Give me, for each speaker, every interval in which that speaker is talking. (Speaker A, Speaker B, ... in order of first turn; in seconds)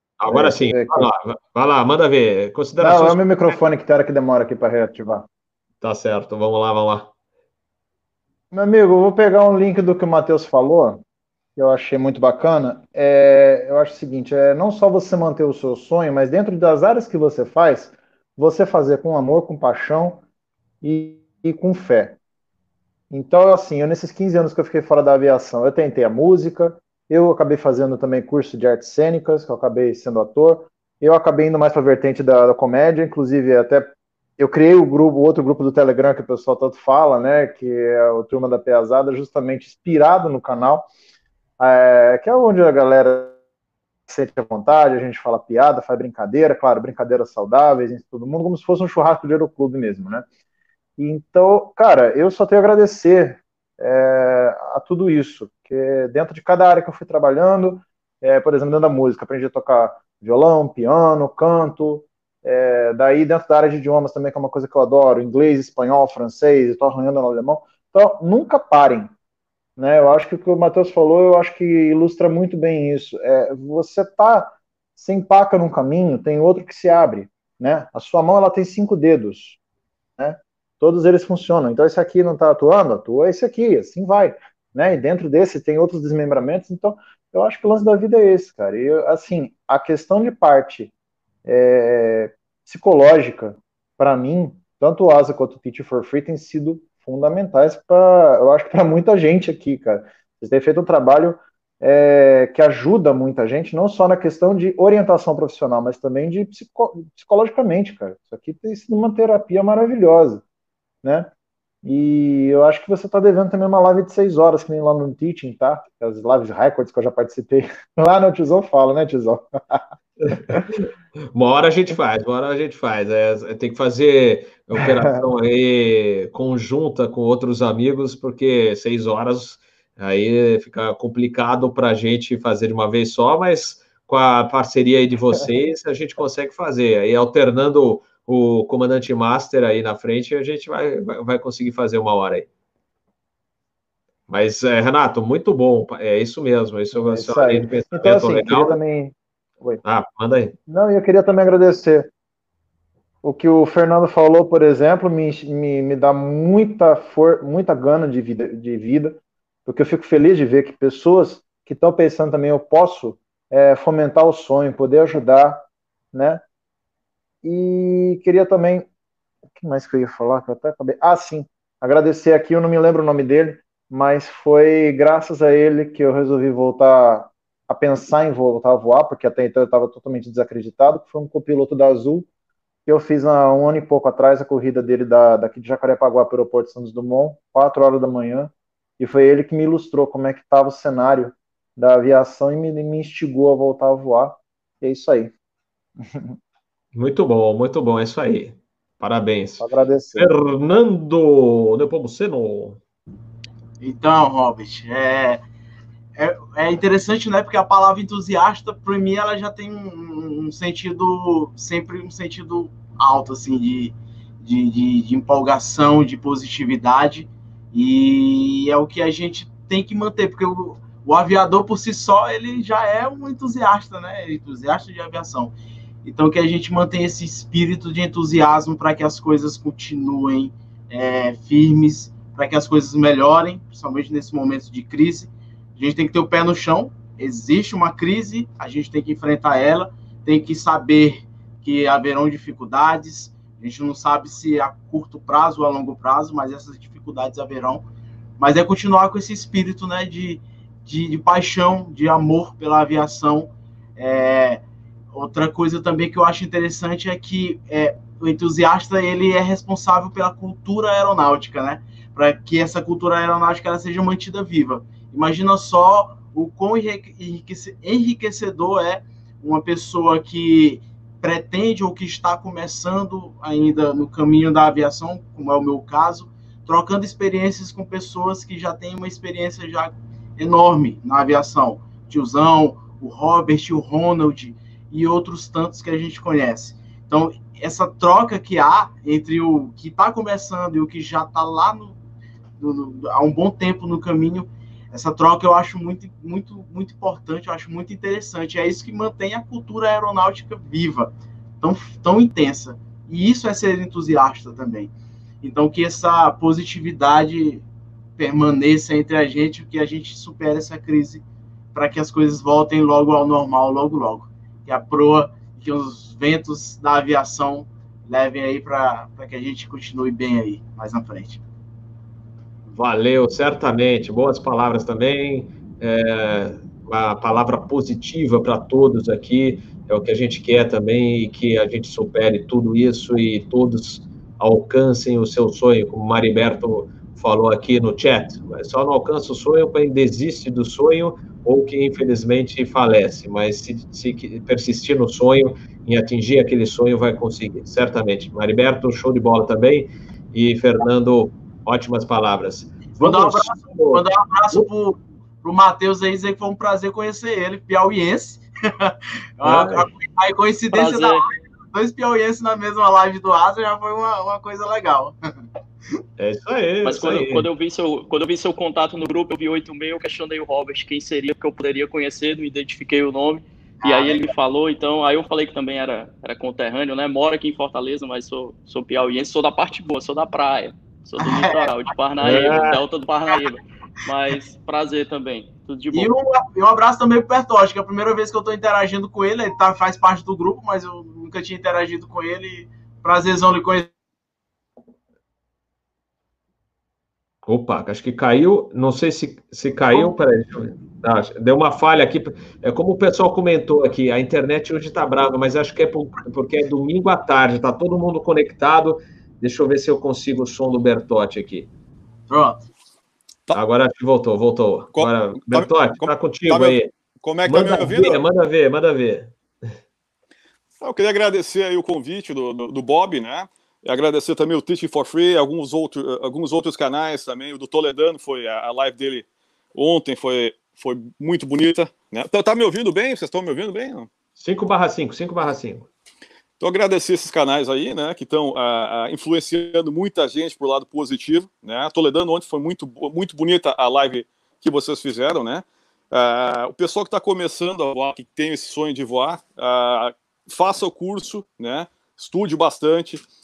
Speaker A: 0.2-3.2, 5.8-7.1, 120.3-142.5, 144.3-148.8, 149.8-150.5, 196.9-202.8, 322.7-354.7, 359.4-359.9, 366.2-367.5, 382.2-382.8, 397.4-411.7, 413.5-416.9, 417.4-419.4, 434.4-435.9
Speaker B: 0.3-1.1, 2.8-5.3, 8.5-11.0, 11.6-20.2, 20.8-22.2, 23.1-40.9, 41.6-43.3, 44.1-50.2, 51.0-69.1, 69.8-79.6, 80.2-90.9, 91.4-110.4, 111.0-111.3, 111.8-119.8, 120.4-120.6, 146.9-149.8, 150.7-152.1, 153.2-166.4, 167.4-168.9, 169.5-182.3, 182.8-195.3, 196.0-196.3, 199.6-200.3
Speaker C: 203.8-205.4, 206.2-247.8, 248.4-254.6, 255.1-291.9, 292.6-304.9, 305.4-307.6, 308.2-311.2, 311.7-321.4, 353.0-365.2, 373.8-374.3, 381.2-381.7, 385.9-393.9, 412.3-412.6
Speaker D: 360.7-361.2, 366.8-386.1
Speaker E: 414.9-418.2, 420.8-434.1, 436.6-453.2